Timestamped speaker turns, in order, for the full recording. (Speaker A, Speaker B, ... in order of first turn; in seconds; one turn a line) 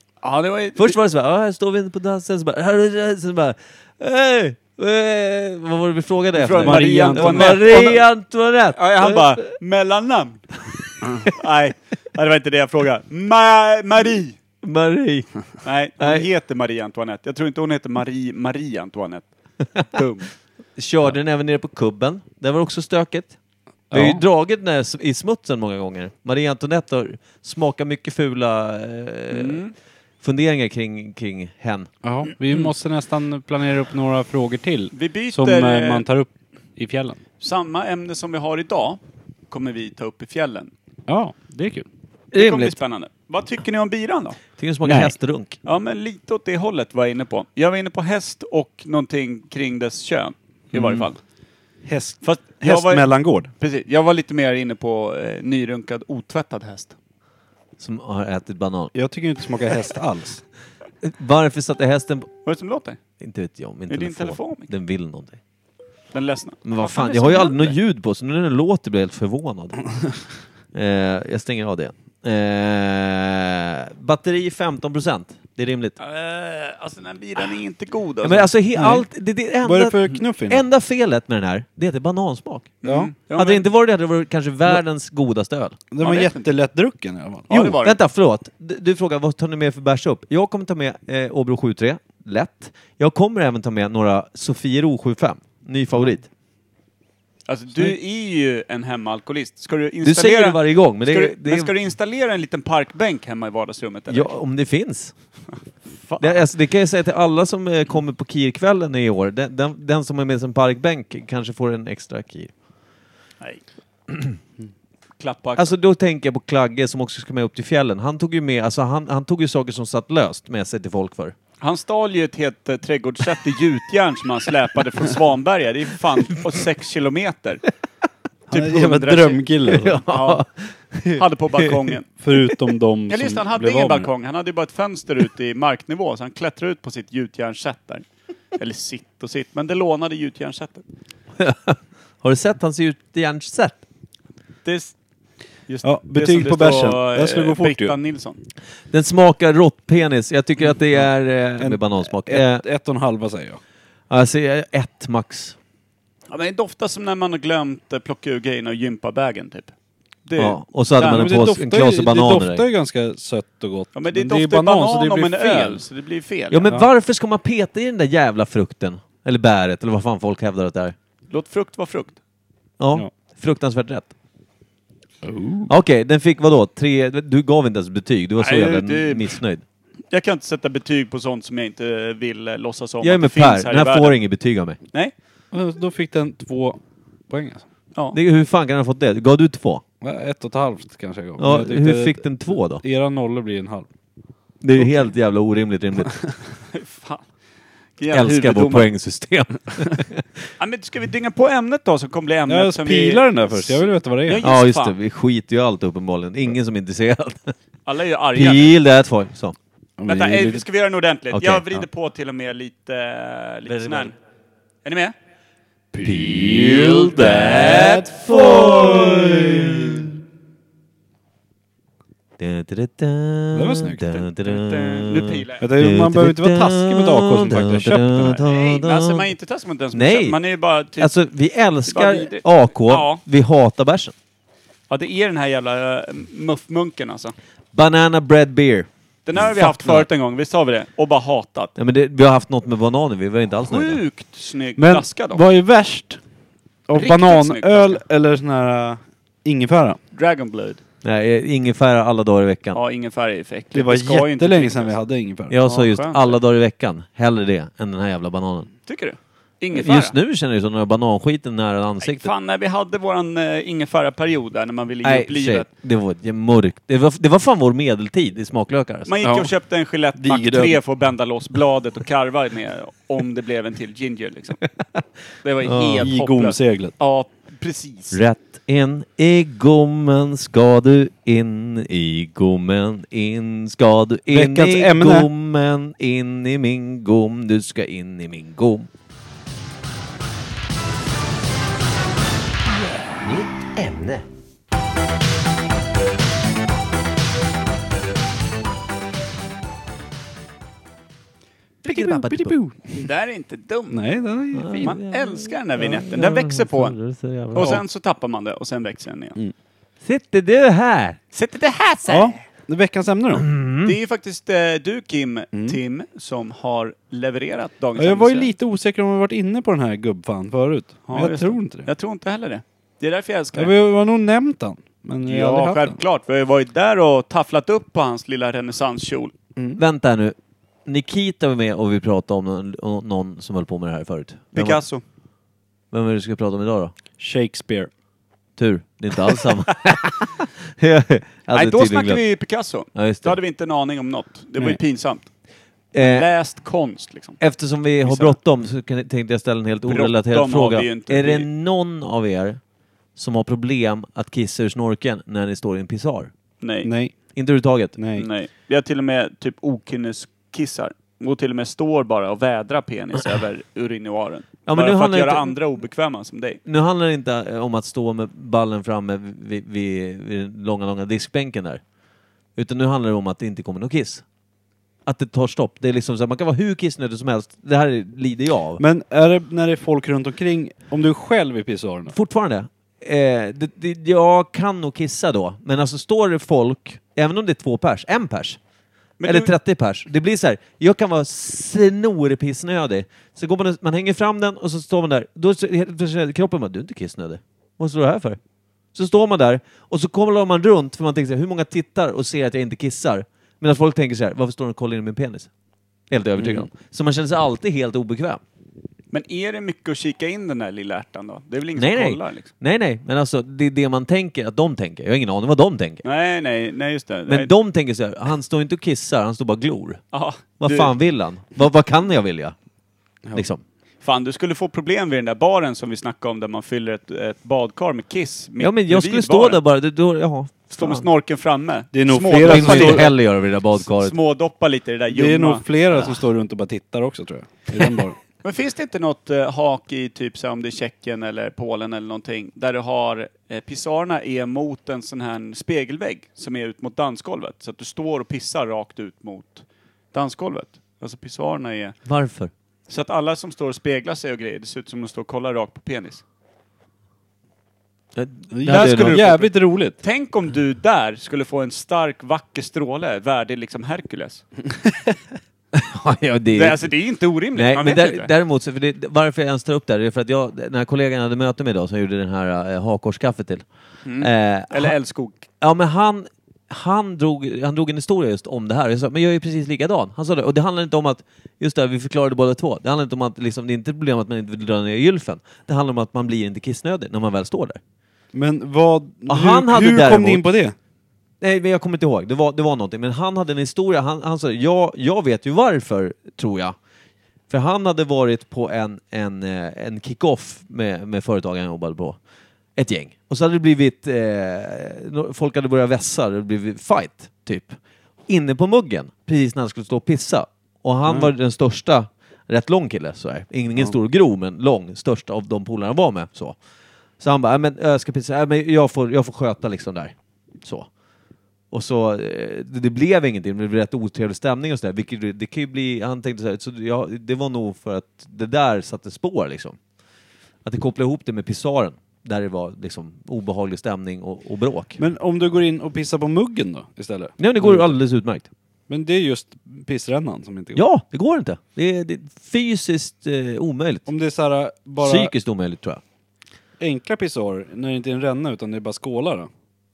Speaker A: 0.2-0.9
Speaker B: 0.8-9.4
Speaker A: 6.3-8.0
Speaker C: 6.6-7.8
Speaker A: 8.7-10.5
Speaker A: 11.1-14.4
Speaker B: 14.6-15.3
Speaker A: 15.6-20.3
Speaker B: 16.0-16.3
Speaker B: 20.8-23.4
Speaker C: 23.9-24.2
Speaker B: 23.9-29.6
Speaker A: 29.3-29.7
Speaker B: 30.2-31.9
Speaker C: 32.0-37.2
Speaker A: 34.9-36.0
Speaker A: 37.4-40.7
Speaker C: 41.1-41.9
Speaker B: 42.3-42.8
Speaker A: 42.3-44.4
Speaker B: 44.6-45.6
Speaker C: 44.8-45.1
Speaker A: 45.6-51.2
Speaker C: 51.8-53.5
Speaker A: 52.2-56.9
Speaker B: 57.8-58.9
Speaker C: 58.9-60.4
Speaker B: 61.0-62.3
Speaker A: 62.4-63.0
Speaker B: 63.2-65.4
Speaker A: 63.9-64.7
Speaker A: 66.1-67.8
Speaker B: 66.6-69.8
Speaker B: 70.7-76.0
Speaker A: 76.0-78.5
Speaker B: 78.2-82.8
Speaker C: 78.7-79.0
Speaker C: 79.6-80.6
Speaker A: 82.8-83.7
Speaker C: 82.8-83.1
Speaker B: 83.3-85.8
Speaker C: 85.9-87.5
Speaker A: 86.0-86.5
Speaker A: 87.5-88.0
Speaker B: 87.5-96.3
Speaker A: 97.5-104.3
Speaker B: 100.0-101.7
Speaker B: 104.1-105.1
Speaker A: 105.9-106.5
Speaker B: 106.2-112.5
Speaker A: 115.2-115.7
Speaker B: 115.6-121.3
Speaker A: 121.6-127.6
Speaker C: 128.5-130.0
Speaker A: 128.5-129.5
Speaker B: 129.7-131.9
Speaker A: 130.0-130.4
Speaker A: 131.1-132.1
Speaker C: 132.2-134.1
Speaker A: 133.1-140.8
Speaker B: 141.4-143.8
Speaker A: 144.6-144.9
Speaker A: 145.7-148.4
Speaker C: 145.8-148.0
Speaker B: 148.9-152.6
Speaker C: 151.6-153.6
Speaker B: 154.1-155.6
Speaker A: 156.3-159.7
Speaker A: 160.2-161.3
Speaker B: 160.4-162.6
Speaker C: 161.0-165.8
Speaker A: 163.9-166.7
Speaker B: 166.5-170.9
Speaker A: 171.3-172.2
Speaker B: 172.8-174.1
Speaker C: 175.2-175.7
Speaker B: 175.7-179.6
Speaker A: 178.4-179.4
Speaker A: 180.1-184.2
Speaker B: 183.0-184.8
Speaker C: 185.5-186.8
Speaker C: 187.3-187.6
Speaker B: 188.1-189.8
Speaker C: 190.0-193.9
Speaker B: 191.4-192.8
Speaker B: 194.6-196.1
Speaker A: 196.7-197.2
Speaker A: 198.0-198.9
Speaker B: 198.1-200.2
Speaker A: 200.6-204.9
Speaker C: 202.5-204.4
Speaker B: 204.4-207.5
Speaker A: 207.8-208.7
Speaker B: 208.3-209.6
Speaker C: 210.0-210.6
Speaker A: 210.1-214.2
Speaker B: 211.3-211.7
Speaker B: 213.7-214.1
Speaker A: 214.8-215.1
Speaker C: 215.9-219.6
Speaker B: 216.0-220.1
Speaker B: 222.4-229.3
Speaker C: 223.5-224.1
Speaker A: 224.1-225.7
Speaker C: 225.6-228.4
Speaker A: 228.3-231.1
Speaker B: 229.9-230.4
Speaker B: 231.0-234.1
Speaker A: 231.8-233.2
Speaker A: 234.9-237.3
Speaker B: 237.7-240.1
Speaker A: 239.2-241.7
Speaker B: 241.8-244.0
Speaker A: 243.6-245.4
Speaker C: 244.8-246.2
Speaker C: 246.9-250.0
Speaker A: 246.9-248.0
Speaker A: 250.1-250.8
Speaker B: 251.0-252.8
Speaker A: 252.7-254.9
Speaker C: 253.7-255.6
Speaker B: 255.5-258.7
Speaker A: 255.6-256.4
Speaker A: 258.9-260.1
Speaker B: 259.7-262.3
Speaker A: 262.0-265.7
Speaker B: 265.0-269.1
Speaker A: 269.1-274.6
Speaker C: 269.2-269.5
Speaker B: 270.3-270.7
Speaker A: 275.4-278.2
Speaker B: 275.6-276.0
Speaker C: 276.0-276.9
Speaker B: 278.1-288.9
Speaker C: 284.3-285.3
Speaker B: 293.2-294.2
Speaker B: 301.8-302.5
Speaker C: 301.9-303.0
Speaker A: 302.9-304.1
Speaker C: 303.9-304.9
Speaker B: 304.5-307.8
Speaker A: 304.8-306.9
Speaker A: 307.5-309.4
Speaker C: 307.6-307.8
Speaker B: 310.0-311.2
Speaker A: 311.3-312.4
Speaker C: 312.1-313.5
Speaker B: 313.3-314.0
Speaker A: 313.8-318.5
Speaker C: 315.5-315.8
Speaker C: 317.9-321.9
Speaker A: 321.1-323.7
Speaker C: 323.5-325.9
Speaker A: 325.2-329.3
Speaker C: 329.6-329.8
Speaker B: 329.8-334.8
Speaker A: 334.5-335.0
Speaker B: 335.9-336.9
Speaker C: 337.2-337.9
Speaker B: 338.6-342.2
Speaker A: 341.5-345.3
Speaker B: 342.9-343.4
Speaker B: 345.9-346.3
Speaker A: 346.0-347.4
Speaker B: 347.4-352.6
Speaker A: 348.0-348.4
Speaker A: 349.9-351.5
Speaker B: 353.1-356.3
Speaker A: 356.6-356.9
Speaker C: 356.8-357.1
Speaker B: 357.3-357.9
Speaker C: 357.9-358.3
Speaker A: 358.1-366.6
Speaker B: 364.6-365.5
Speaker B: 366.6-371.8
Speaker B: 372.6-374.2
Speaker B: 375.1-378.8
Speaker C: 378.8-382.1
Speaker B: 382.1-388.6
Speaker A: 389.2-389.5
Speaker B: 389.2-398.4
Speaker B: 398.9-405.5
Speaker B: 406.1-408.4
Speaker C: 406.4-406.7
Speaker A: 409.1-412.5
Speaker B: 411.8-416.0
Speaker A: 416.0-417.5
Speaker B: 417.3-420.0
Speaker A: 420.1-420.9
Speaker B: 420.6-422.5
Speaker B: 423.3-423.6
Speaker A: 424.0-429.6
Speaker B: 428.6-431.1
Speaker A: 430.7-433.1
Speaker C: 431.9-433.1
Speaker B: 432.4-434.1
Speaker A: 433.8-435.6
Speaker C: 435.1-438.2
Speaker A: 438.4-452.0
Speaker B: 452.1-452.5
Speaker A: 452.9-456.2
Speaker B: 458.1-459.4
Speaker C: 458.5-460.0
Speaker A: 458.7-464.4
Speaker B: 465.7-466.8
Speaker A: 466.5-468.3
Speaker B: 467.5-473.6
Speaker A: 474.0-475.4
Speaker B: 474.2-474.9
Speaker B: 475.6-487.8
Speaker C: 488.3-490.7
Speaker B: 489.3-490.4
Speaker B: 491.4-496.8
Speaker B: 497.5-502.2
Speaker B: 502.8-507.8
Speaker B: 508.3-516.5
Speaker B: 517.2-520.9
Speaker B: 521.7-529.8
Speaker B: 530.6-535.0
Speaker C: 535.0-537.9
Speaker B: 537.4-538.5
Speaker C: 538.9-540.8
Speaker B: 540.7-544.1
Speaker C: 544.1-545.3
Speaker B: 545.0-546.0
Speaker C: 546.8-549.5